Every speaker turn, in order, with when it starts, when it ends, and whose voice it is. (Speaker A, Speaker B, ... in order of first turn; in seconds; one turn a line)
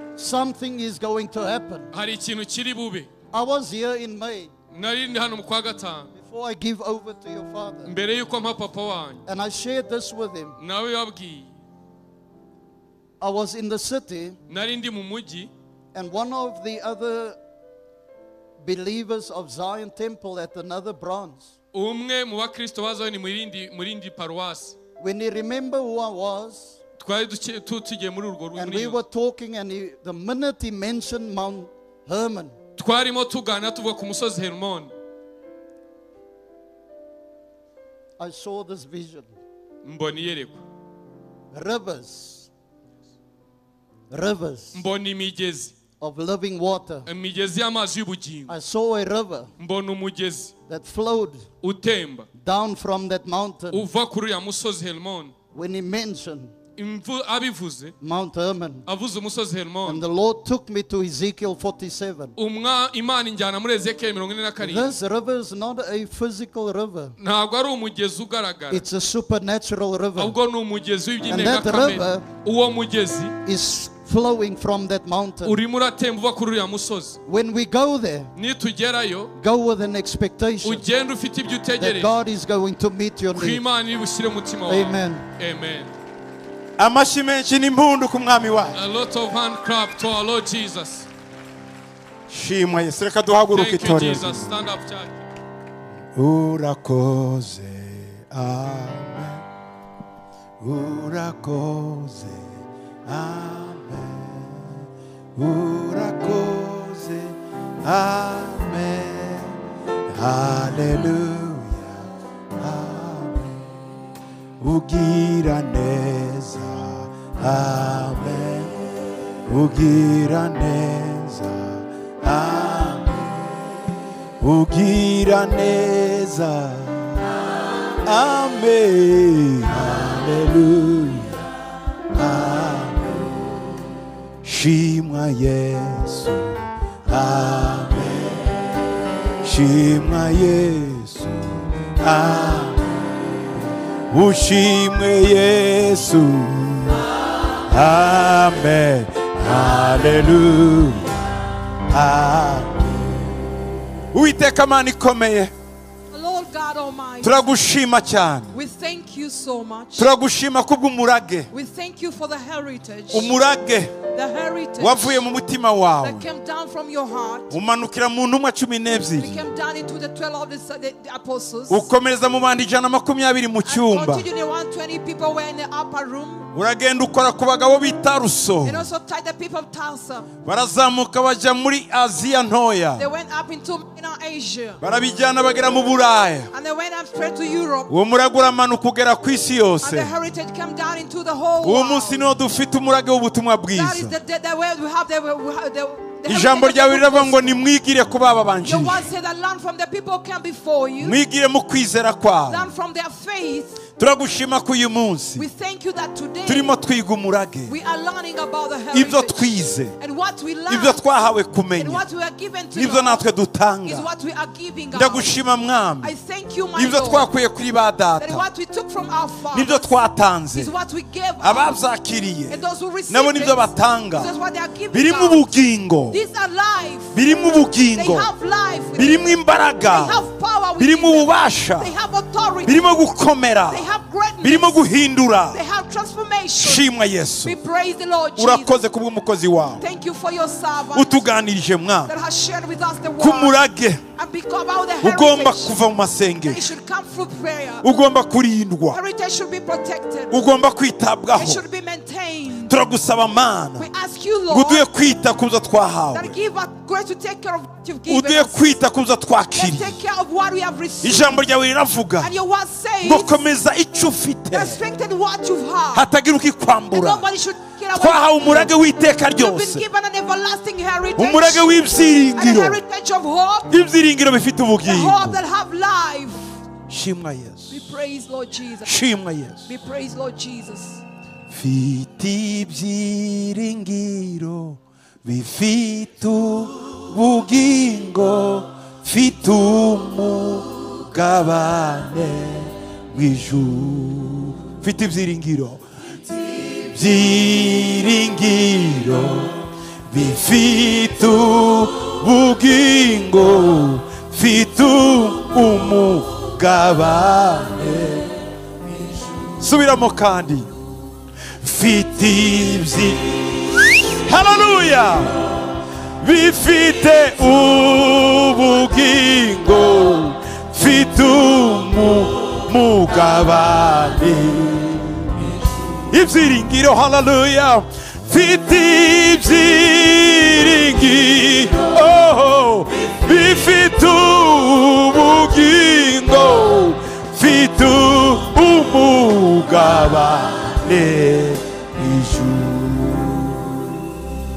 Speaker A: 0.2-1.9
Speaker B: 1.9-3.1
Speaker A: 3.3-4.5
Speaker B: 4.7-6.1
Speaker A: 6.2-7.9
Speaker B: 7.9-9.2
Speaker A: 9.2-10.6
Speaker B: 10.6-11.5
Speaker A: 13.2-14.4
Speaker B: 14.5-15.5
Speaker A: 15.9-17.4
Speaker A: 18.6-21.5
Speaker B: 21.7-24.8
Speaker A: 25.0-26.8
Speaker B: 27.0-29.0
Speaker A: 28.6-32.6
Speaker B: 32.8-34.9
Speaker A: 38.2-39.4
Speaker B: 39.8-40.6
Speaker A: 41.5-42.5
Speaker A: 44.1-44.8
Speaker B: 44.7-45.7
Speaker A: 46.0-47.1
Speaker B: 47.1-48.5
Speaker A: 48.5-49.5
Speaker B: 49.6-50.5
Speaker A: 50.7-51.5
Speaker B: 51.6-52.3
Speaker A: 52.4-53.9
Speaker B: 53.7-55.3
Speaker A: 55.5-56.5
Speaker B: 56.8-57.9
Speaker A: 58.0-58.9
Speaker B: 58.9-60.0
Speaker A: 59.9-62.4
Speaker B: 62.4-65.0
Speaker A: 64.6-67.2
Speaker B: 67.2-68.9
Speaker A: 68.7-70.4
Speaker B: 70.2-73.4
Speaker A: 71.2-72.3
Speaker A: 73.5-75.6
Speaker B: 75.4-77.2
Speaker A: 77.3-78.3
Speaker B: 78.4-79.3
Speaker A: 79.4-80.8
Speaker B: 80.6-82.1
Speaker A: 81.8-83.6
Speaker B: 83.3-85.9
Speaker A: 84.7-85.2
Speaker C: 86.8-88.8
Speaker B: 88.8-91.1
Speaker C: 92.3-94.5
Speaker B: 93.5-95.3
Speaker C: 96.2-99.4
Speaker C: 100.6-102.5
Speaker C: 103.1-104.6
Speaker C: 105.4-109.5
Speaker C: 110.2-112.0
Speaker C: 112.6-113.6
Speaker C: 114.6-118.7
Speaker C: 119.5-123.3
Speaker C: 124.4-127.1
Speaker C: 128.1-131.4
Speaker C: 132.2-133.2
Speaker C: 134.4-138.5
Speaker C: 139.4-142.8
Speaker C: 144.1-147.0
Speaker C: 147.7-151.1
Speaker C: 151.9-153.1
Speaker C: 154.1-155.5
Speaker D: 156.1-157.6
Speaker C: 157.2-158.5
Speaker D: 158.5-160.1
Speaker C: 160.0-161.5
Speaker D: 161.5-163.3
Speaker C: 163.1-163.9
Speaker D: 164.1-165.2
Speaker C: 164.8-166.2
Speaker D: 166.0-167.6
Speaker C: 167.5-169.4
Speaker D: 169.2-171.9
Speaker C: 171.7-174.3
Speaker D: 173.7-176.5
Speaker C: 176.5-178.8
Speaker D: 178.6-180.3
Speaker C: 180.4-183.1
Speaker D: 183.0-184.8
Speaker C: 184.8-186.5
Speaker D: 186.5-187.9
Speaker C: 187.9-190.1
Speaker D: 189.8-192.3
Speaker C: 191.6-194.2
Speaker D: 193.7-197.6
Speaker C: 196.3-199.1
Speaker D: 198.6-201.2
Speaker C: 201.0-202.7
Speaker D: 202.5-203.8
Speaker C: 204.0-205.4
Speaker D: 205.4-206.8
Speaker C: 206.5-207.7
Speaker D: 207.7-211.1
Speaker C: 208.9-209.9
Speaker C: 210.7-212.1
Speaker D: 211.8-213.3
Speaker C: 212.7-214.1
Speaker D: 213.8-215.3
Speaker C: 214.9-216.1
Speaker D: 216.0-217.3
Speaker C: 216.8-218.5
Speaker D: 218.2-220.0
Speaker C: 219.5-220.7
Speaker D: 220.5-221.8
Speaker C: 221.4-224.3
Speaker D: 222.5-225.5
Speaker C: 224.9-226.2
Speaker D: 226.1-227.2
Speaker C: 227.1-228.3
Speaker D: 227.9-232.9
Speaker C: 228.9-230.3
Speaker C: 230.8-231.9
Speaker C: 232.7-233.9
Speaker D: 233.7-234.9
Speaker C: 234.4-235.6
Speaker D: 235.5-236.9
Speaker C: 236.6-237.6
Speaker D: 237.4-238.8
Speaker C: 238.4-239.8
Speaker D: 239.8-241.3
Speaker C: 240.9-242.1
Speaker D: 242.1-243.6
Speaker C: 243.2-244.0
Speaker D: 244.2-245.8
Speaker C: 245.0-246.7
Speaker D: 246.4-247.9
Speaker C: 247.8-249.0
Speaker D: 248.9-250.4
Speaker C: 250.3-251.6
Speaker D: 251.3-252.8
Speaker C: 252.7-253.9
Speaker D: 253.8-254.9
Speaker C: 254.5-256.4
Speaker D: 256.1-258.8
Speaker C: 258.1-260.0
Speaker D: 259.6-261.4
Speaker C: 261.0-262.3
Speaker D: 262.2-263.4
Speaker C: 263.0-264.8
Speaker D: 264.5-266.1
Speaker C: 265.9-267.3
Speaker D: 266.9-271.8
Speaker C: 267.9-269.8
Speaker C: 271.2-272.8
Speaker D: 272.3-273.8
Speaker C: 273.7-275.4
Speaker D: 274.8-276.6
Speaker C: 276.9-277.9
Speaker D: 277.7-279.0
Speaker C: 278.9-279.7
Speaker D: 279.7-281.0
Speaker C: 281.5-295.8
Speaker C: 296.8-299.6
Speaker C: 300.1-308.3
Speaker C: 309.6-310.7
Speaker C: 311.6-315.3
Speaker C: 316.2-325.2
Speaker C: 326.1-343.7